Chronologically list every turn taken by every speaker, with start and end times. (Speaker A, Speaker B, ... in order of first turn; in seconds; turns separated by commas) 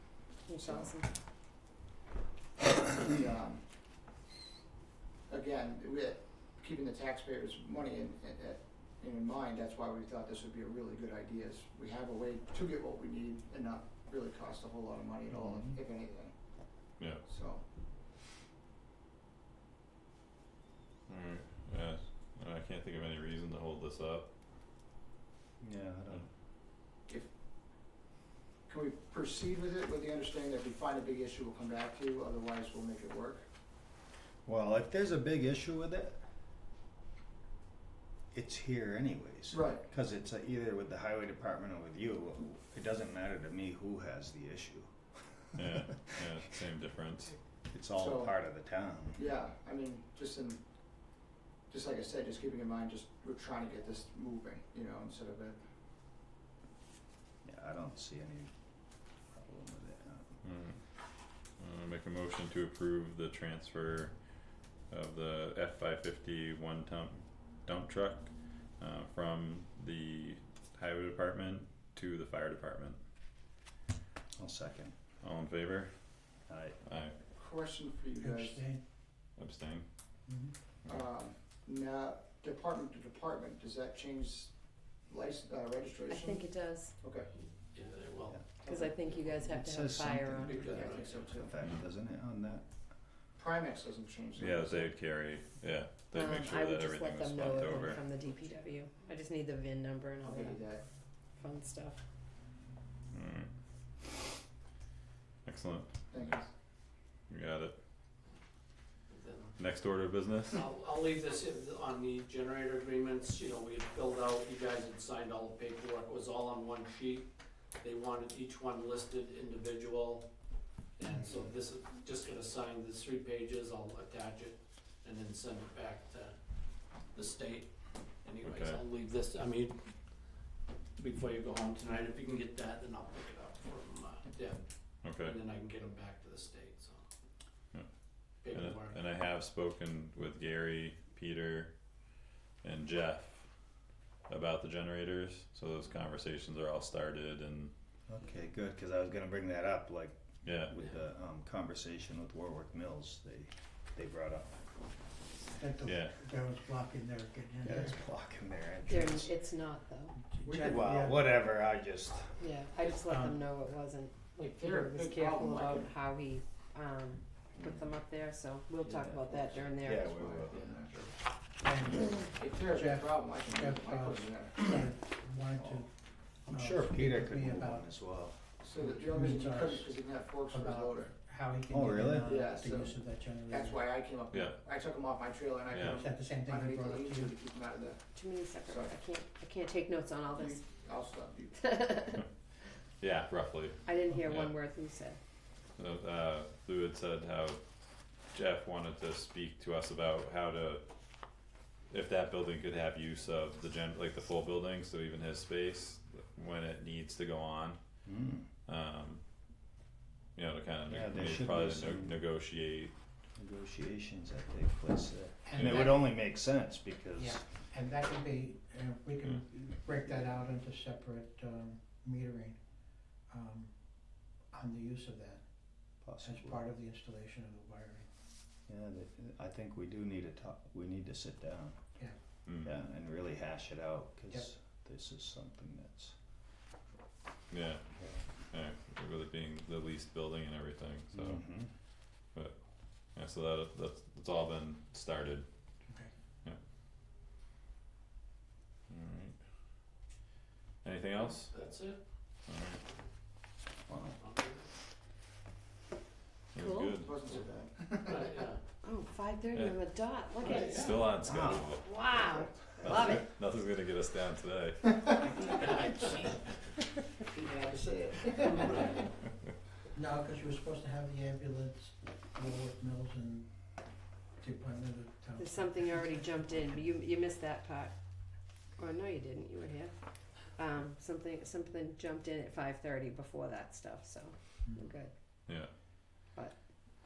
Speaker A: 0.5-1.1, Speaker B: 0.6-0.9, Speaker B: 2.7-3.6, Speaker B: 5.3-16.4, Speaker C: 15.3-15.8, Speaker B: 17.2-17.6, Speaker D: 21.1-24.3, Speaker C: 25.6-26.3, Speaker B: 28.7-33.4, Speaker C: 34.5-36.2, Speaker C: 38.3-45.9, Speaker B: 39.5-39.8, Speaker D: 45.5-47.4, Speaker C: 47.7-49.2, Speaker B: 48.0-48.3, Speaker B: 49.1-50.6, Speaker B: 51.7-55.6, Speaker C: 57.4-58.5, Speaker C: 59.3-60.4, Speaker D: 60.4-60.8, Speaker D: 61.6-64.2, Speaker D: 64.9-73.0, Speaker C: 74.4-75.0, Speaker D: 75.2-75.9, Speaker C: 76.5-76.8, Speaker D: 76.8-77.2, Speaker B: 77.3-78.7, Speaker E: 78.2-78.8, Speaker D: 79.4-79.8, Speaker E: 80.3-80.5, Speaker B: 80.9-86.4, Speaker A: 86.1-87.0, Speaker B: 87.0-87.3, Speaker F: 87.3-88.8, Speaker B: 88.6-88.9, Speaker A: 88.7-90.7, Speaker C: 89.3-92.7, Speaker F: 90.4-91.4, Speaker B: 90.5-91.5, Speaker B: 93.4-95.0, Speaker D: 94.4-98.0, Speaker A: 96.1-100.7, Speaker B: 100.2-100.8, Speaker A: 101.3-102.0, Speaker D: 103.1-103.5, Speaker D: 105.5-106.3, Speaker B: 106.1-106.5, Speaker D: 107.3-107.8, Speaker F: 109.1-109.6, Speaker D: 109.6-110.7, Speaker F: 110.5-117.3, Speaker F: 117.8-120.3, Speaker F: 121.0-126.4, Speaker F: 126.9-130.2, Speaker D: 128.4-128.8, Speaker F: 131.0-137.1, Speaker D: 135.0-135.4, Speaker F: 138.4-139.0, Speaker D: 138.4-141.8, Speaker D: 142.6-143.5, Speaker D: 144.3-147.7, Speaker C: 148.1-154.6, Speaker D: 150.4-150.8, Speaker E: 155.6-158.0, Speaker D: 155.8-156.1, Speaker C: 157.7-159.3, Speaker A: 158.8-160.2, Speaker E: 160.3-161.2, Speaker B: 160.4-160.8, Speaker C: 160.5-162.4, Speaker A: 162.4-170.5, Speaker B: 164.4-165.9, Speaker C: 167.6-167.9, Speaker C: 168.9-169.2, Speaker B: 169.2-171.1, Speaker C: 169.7-171.1, Speaker E: 171.6-175.9, Speaker B: 172.4-174.7, Speaker C: 175.6-175.8, Speaker C: 176.5-178.4, Speaker E: 176.5-177.8, Speaker B: 178.6-181.1, Speaker E: 178.8-180.0, Speaker E: 180.5-183.8, Speaker C: 181.7-182.3, Speaker B: 182.2-183.0, Speaker B: 183.5-188.0, Speaker D: 184.3-184.6, Speaker D: 185.7-186.0, Speaker E: 185.9-187.3, Speaker A: 188.1-190.6, Speaker B: 188.6-188.9, Speaker B: 190.3-191.7, Speaker A: 191.6-192.2, Speaker D: 193.0-194.6, Speaker A: 193.9-195.2, Speaker D: 195.8-197.6, Speaker D: 198.3-200.8, Speaker D: 201.9-207.8, Speaker C: 208.1-208.5, Speaker D: 208.7-209.2, Speaker D: 210.3-212.9, Speaker C: 210.9-212.2, Speaker C: 213.4-217.5, Speaker E: 215.4-216.1, Speaker D: 215.6-215.9, Speaker E: 217.2-222.6, Speaker C: 220.2-220.5, Speaker E: 223.3-223.7, Speaker E: 224.5-225.4, Speaker C: 226.0-226.7, Speaker E: 226.2-228.1, Speaker C: 228.7-231.8, Speaker D: 232.5-232.8, Speaker C: 232.6-236.2, Speaker D: 237.5-237.8, Speaker C: 238.0-238.3, Speaker D: 238.5-241.6, Speaker C: 241.1-241.7, Speaker D: 242.3-242.6, Speaker D: 243.1-245.4, Speaker D: 248.9-249.4, Speaker D: 250.8-251.6, Speaker F: 251.2-252.0, Speaker D: 252.5-252.8, Speaker C: 253.9-254.2, Speaker F: 254.2-254.7, Speaker D: 256.5-257.2, Speaker A: 256.6-257.0, Speaker B: 257.0-258.4, Speaker F: 258.0-258.6, Speaker A: 258.8-263.3, Speaker F: 260.4-261.1, Speaker D: 260.8-261.8, Speaker C: 261.3-261.7, Speaker D: 262.8-265.5, Speaker B: 265.3-266.3, Speaker B: 267.2-269.0, Speaker F: 268.6-268.8, Speaker E: 269.9-273.5, Speaker E: 274.4-276.4, Speaker A: 275.4-277.9, Speaker A: 278.8-285.1